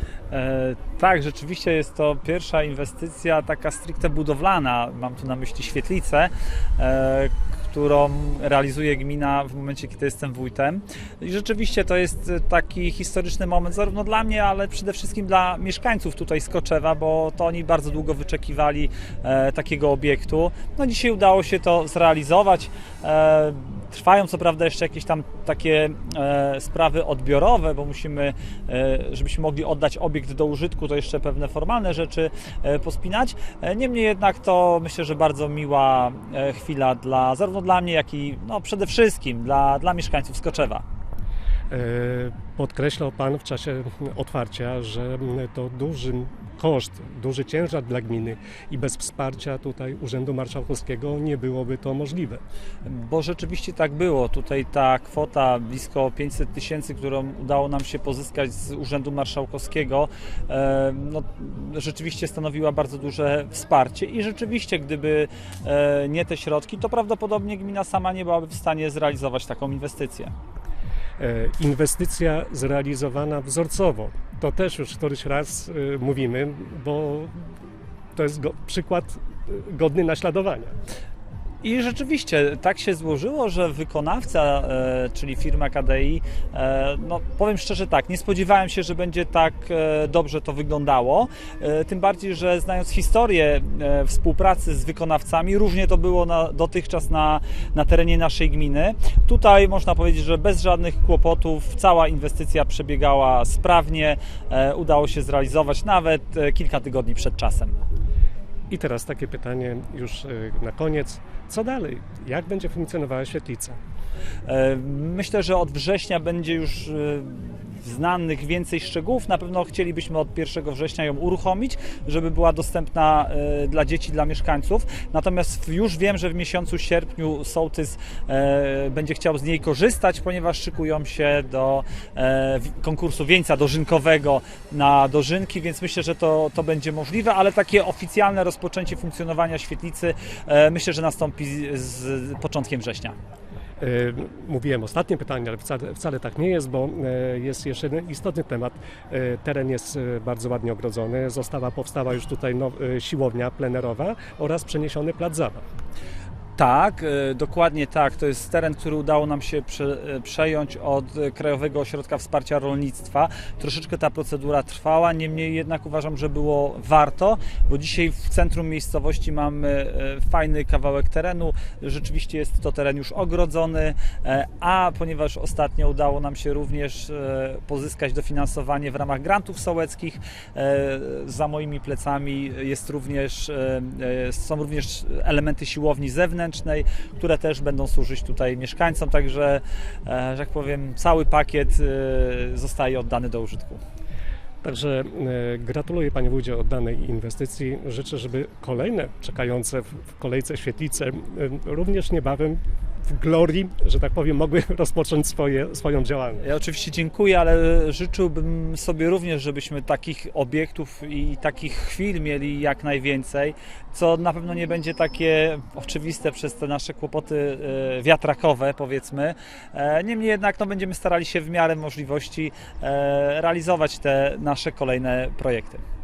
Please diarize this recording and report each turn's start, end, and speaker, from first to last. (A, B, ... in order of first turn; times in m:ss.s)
0:00.3-0:40.8 A
0:41.7-0:52.4 B
0:52.8-1:10.3 A
1:11.2-1:17.3 B
1:18.1-1:20.7 B
1:21.6-1:47.7 A
1:48.7-1:53.8 B
1:54.4-2:23.1 A
2:23.8-2:35.6 B
2:36.6-3:13.8 A
3:14.6-3:26.4 B
3:26.4-3:45.8 A